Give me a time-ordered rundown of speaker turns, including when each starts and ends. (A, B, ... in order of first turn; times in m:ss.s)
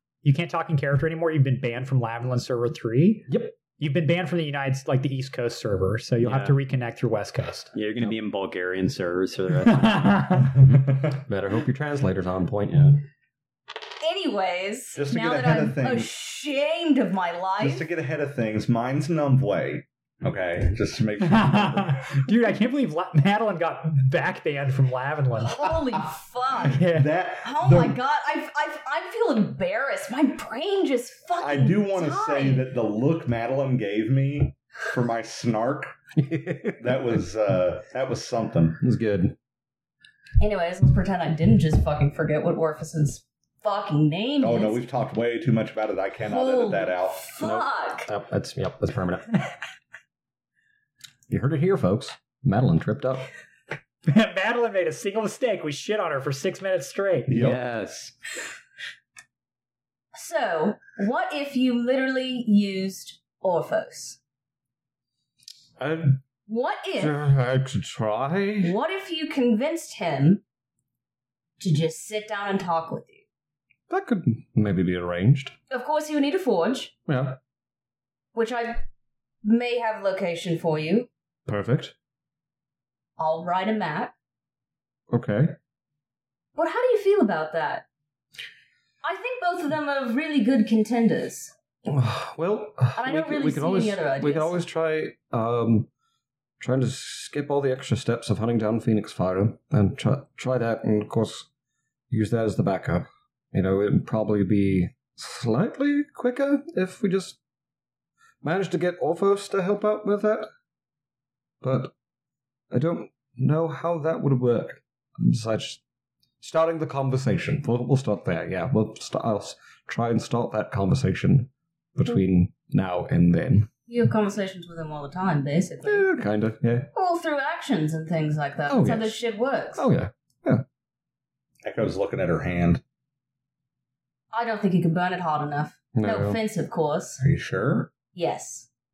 0:00.2-0:07.7 A
0:03.3-0:03.5 B
0:06.2-0:06.6 C
0:07.7-0:10.3 C
0:09.7-0:10.5 A
0:11.3-0:13.0 B
0:14.0-0:17.9 D
0:15.0-0:16.1 E
0:17.6-0:22.1 E
0:21.2-0:25.7 A
0:25.4-0:32.7 D
0:26.7-0:27.1 A
0:26.8-0:28.0 E
0:31.4-0:36.0 E
0:36.2-0:37.0 B
0:36.8-0:38.8 E
0:38.8-0:39.4 B
0:40.4-0:44.8 D
0:44.4-0:47.2 E
0:46.3-0:48.1 D
0:47.4-0:49.4 B
0:51.3-0:53.3 B
0:54.1-0:57.4 A
0:57.3-0:57.6 E
0:57.4-0:58.1 B
1:00.1-1:04.2 D
1:05.8-1:06.2 B
1:06.5-1:07.2 D
1:07.0-1:08.8 B
1:08.6-1:10.4 D
1:11.6-1:13.2 D
1:13.9-1:15.6 B
1:15.7-1:16.9 D
1:17.1-1:17.4 B
1:18.3-1:18.8 D
1:19.4-1:21.1 D
1:21.5-1:21.9 B
1:23.2-1:24.1 D
1:25.1-1:25.6 B
1:26.6-1:27.8 D
1:29.0-1:31.5 D
1:31.9-1:35.9 B
1:33.0-1:34.6 D
1:36.6-1:41.5 B
1:42.1-1:47.4 B
1:48.4-1:50.5 B
1:51.6-1:51.9 B
1:52.7-1:55.8 B
1:56.4-2:03.7 B
2:03.9-2:06.1 D
2:05.8-2:06.9 B
2:06.9-2:09.9 D
2:08.7-2:09.2 B
2:09.8-2:10.6 B
2:11.6-2:12.8 E
2:14.3-2:17.2 D
2:16.0-2:16.4 B
2:17.2-2:17.9 E
2:18.1-2:18.7 D